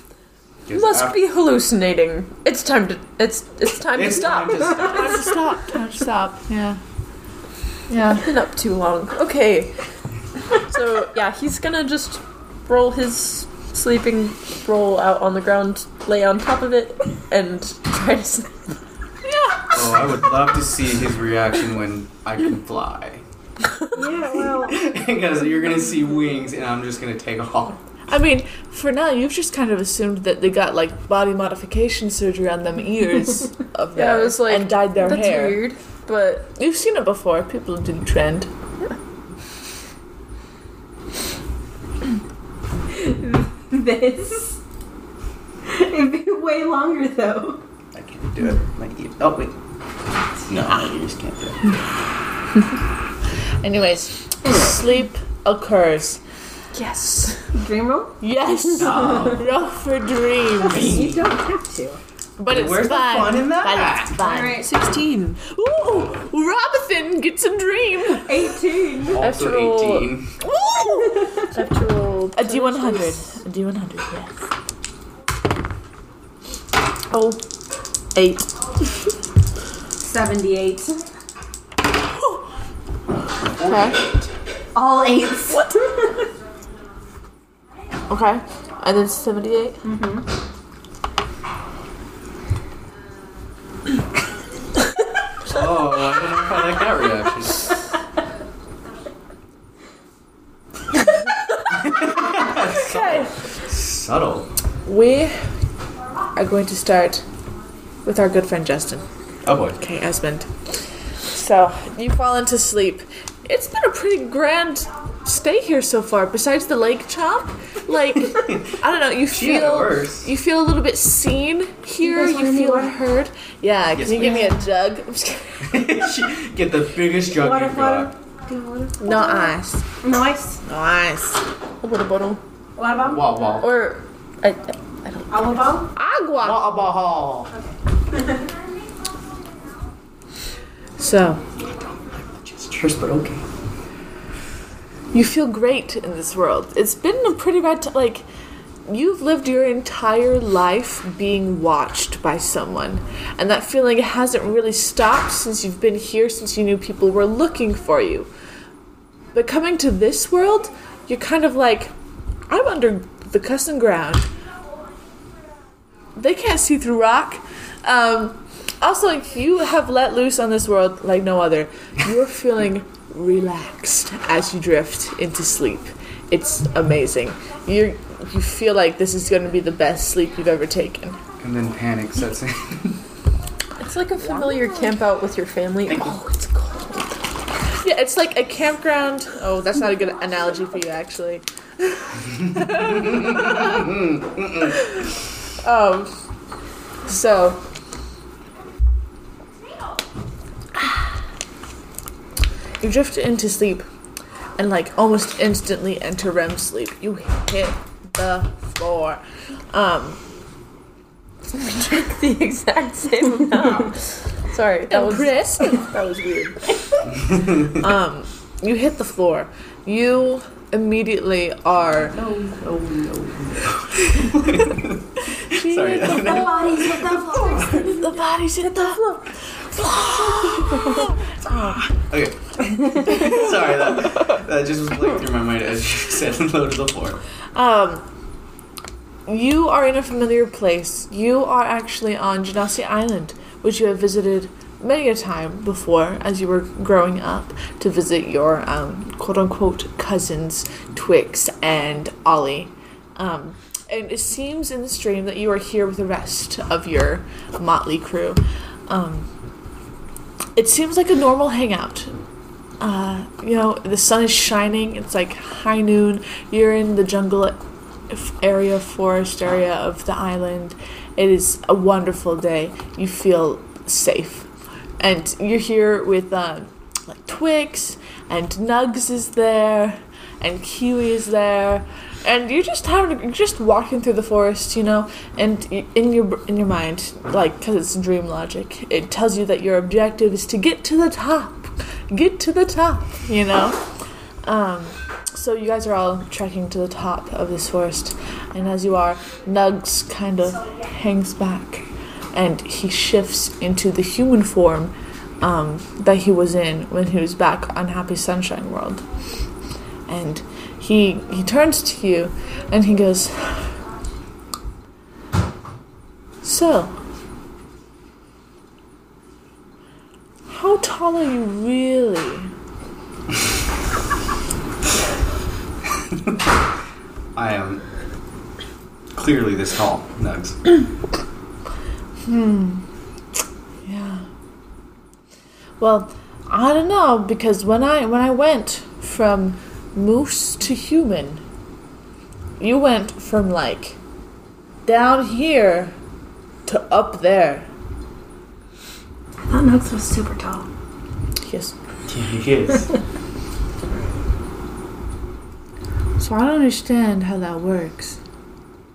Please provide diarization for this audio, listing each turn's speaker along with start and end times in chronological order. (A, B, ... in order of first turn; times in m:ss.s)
0:00.7-0:01.2 A
0:00.7-0:04.9 B
0:03.9-0:05.3 A
0:04.8-0:06.8 C
0:07.9-0:08.2 C
0:08.2-0:09.8 B
0:10.5-0:18.6 B
0:19.2-0:19.8 C
0:19.7-0:23.2 A
0:23.9-0:24.8 D
0:24.6-0:27.8 A
0:28.1-0:35.6 C
0:33.9-0:36.5 B
0:36.5-0:38.5 C
0:42.9-0:44.6 D
0:45.6-0:47.6 D
0:47.9-0:49.5 A
0:50.5-0:51.6 A
0:53.6-0:56.2 C
0:54.4-0:54.8 D
0:56.7-0:57.5 B
0:57.5-0:58.2 D
0:58.2-1:01.0 C
0:58.8-0:59.4 A
0:58.8-0:59.3 D
1:00.6-1:02.0 D
1:00.6-1:01.3 A
1:02.4-1:04.8 C
1:02.5-1:04.2 A
1:04.2-1:04.8 D
1:04.6-1:05.4 B
1:05.4-1:08.4 C
1:08.2-1:09.2 D
1:09.1-1:10.4 A
1:09.2-1:10.1 B
1:10.4-1:11.4 C
1:10.9-1:11.4 D
1:11.5-1:13.2 B
1:12.3-1:14.4 C
1:17.1-1:17.4 B
1:18.1-1:18.5 B
1:20.0-1:21.0 D
1:23.4-1:24.3 A
1:23.6-1:24.0 C
1:24.7-1:25.7 D
1:25.5-1:26.1 B
1:28.1-1:29.8 C
1:29.8-1:30.2 D
1:35.4-1:37.7 A
1:41.7-1:44.5 A
1:42.8-1:43.3 C
1:44.8-1:45.3 C
1:46.3-1:47.2 C
1:48.0-1:49.0 C
1:49.4-1:49.8 A
1:49.8-1:50.6 C
1:51.3-2:06.0 C
1:58.4-1:58.7 A
1:59.3-2:00.3 A
2:02.0-2:02.9 D
2:03.9-2:04.4 A
2:05.6-2:08.1 A
2:07.3-2:10.6 D
2:09.0-2:09.8 C
2:10.6-2:11.4 C
2:11.8-2:12.4 B
2:12.8-2:13.3 D
2:13.0-2:13.7 A
2:13.6-2:15.7 B
2:15.3-2:15.9 D
2:15.9-2:16.7 C
2:16.4-2:17.5 A
2:21.0-2:21.4 C
2:22.3-2:23.5 A
2:25.1-2:28.2 C
2:28.9-2:38.3 C
2:39.3-2:41.9 C
2:42.5-2:44.3 C
2:46.2-3:01.2 C
3:01.4-3:03.0 A
3:03.8-3:07.0 B
3:04.2-3:04.6 C
3:07.8-3:13.9 C
3:13.1-3:13.8 A
3:14.4-3:14.7 A
3:14.6-3:15.0 C
3:15.6-3:16.1 C
3:17.0-3:17.6 C
3:22.8-3:23.8 C
3:24.6-3:30.2 C
3:31.7-3:36.8 B
3:34.9-3:35.9 C
3:37.6-3:42.2 C
3:42.2-3:47.9 A
3:45.5-3:51.9 C
3:46.0-3:47.9 D
3:47.6-3:47.9 B
3:48.6-3:49.2 B
3:52.1-3:57.2 A
3:57.5-3:58.0 C
3:59.3-4:19.3 C
4:20.5-4:22.1 C
4:22.8-4:27.6 C
4:28.1-4:53.8 C
4:54.4-5:09.0 C
5:10.1-5:13.8 C
5:16.4-5:16.9 C
5:20.5-5:22.5 C
5:27.3-5:27.8 A
5:29.1-5:30.8 A
5:32.2-5:32.8 C
5:33.8-5:34.2 C
5:35.8-5:41.4 C
5:42.6-5:44.0 C
5:44.8-5:45.9 C
5:46.6-5:47.7 C
5:49.4-5:50.7 D
5:51.4-5:51.7 C
5:52.1-5:52.9 A
5:56.2-5:58.2 C